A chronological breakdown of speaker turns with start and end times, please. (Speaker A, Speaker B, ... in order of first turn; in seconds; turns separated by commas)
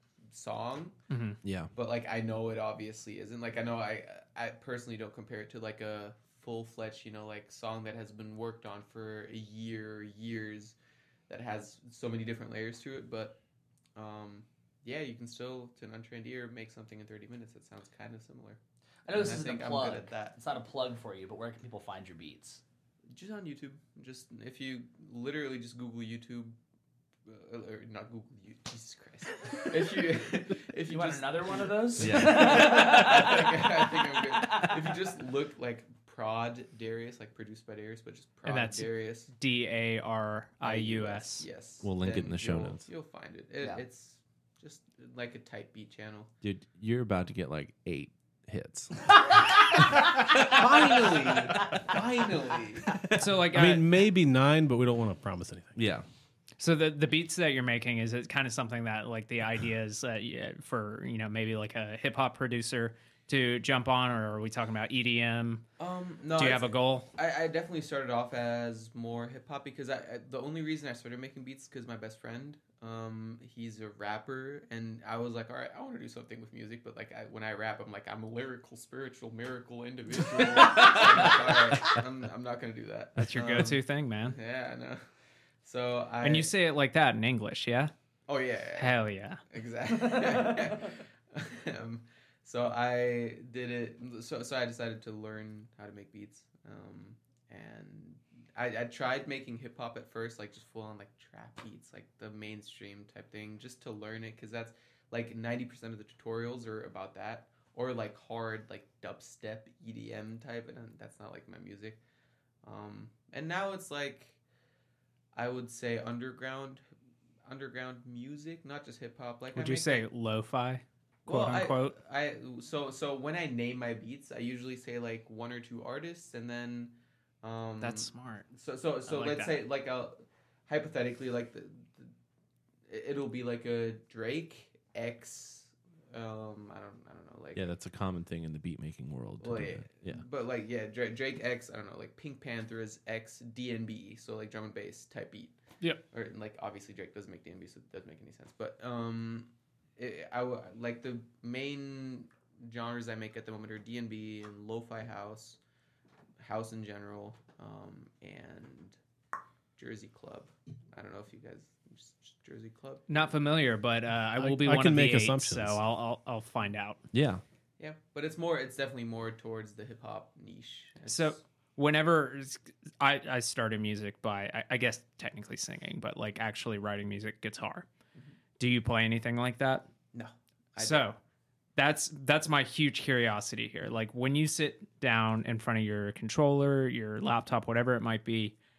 Speaker A: 0.3-1.0, Speaker B: 1.1-1.4, Speaker C: 1.4-1.7, Speaker A: 1.7-10.8, Speaker A: 11.3-13.4, Speaker A: 14.0-18.6, Speaker D: 19.1-22.6, Speaker A: 19.1-20.4, Speaker A: 23.1-26.6, Speaker A: 27.3-39.3, Speaker D: 30.9-35.0, Speaker C: 32.0-32.9, Speaker B: 38.5-41.5, Speaker A: 40.6-46.3, Speaker C: 41.8-42.9, Speaker C: 46.4-49.4, Speaker C: 50.2-51.6, Speaker A: 50.4-53.1, Speaker B: 53.1-53.9, Speaker E: 53.5-55.8, Speaker C: 55.8-56.0, Speaker B: 56.6-65.6, Speaker A: 65.8-85.0, Speaker B: 66.4-67.1, Speaker B: 83.2-84.4, Speaker A: 85.6-86.5, Speaker B: 86.2-87.9, Speaker A: 88.3-112.0, Speaker B: 88.8-89.4, Speaker D: 90.0-90.7, Speaker A: 112.6-114.4, Speaker A: 115.3-116.8, Speaker A: 117.5-120.1, Speaker B: 119.5-122.0, Speaker A: 121.3-132.1, Speaker B: 127.8-128.5, Speaker B: 129.1-129.6, Speaker A: 132.9-137.7, Speaker C: 137.6-140.2, Speaker A: 139.4-145.6, Speaker A: 146.1-155.6, Speaker A: 156.4-159.0, Speaker A: 159.8-163.2, Speaker B: 163.1-167.0, Speaker E: 164.4-165.8, Speaker C: 167.1-167.4, Speaker A: 167.8-171.4, Speaker B: 171.1-177.9, Speaker B: 178.6-179.9, Speaker A: 180.1-181.1, Speaker B: 180.8-181.2, Speaker B: 181.8-188.6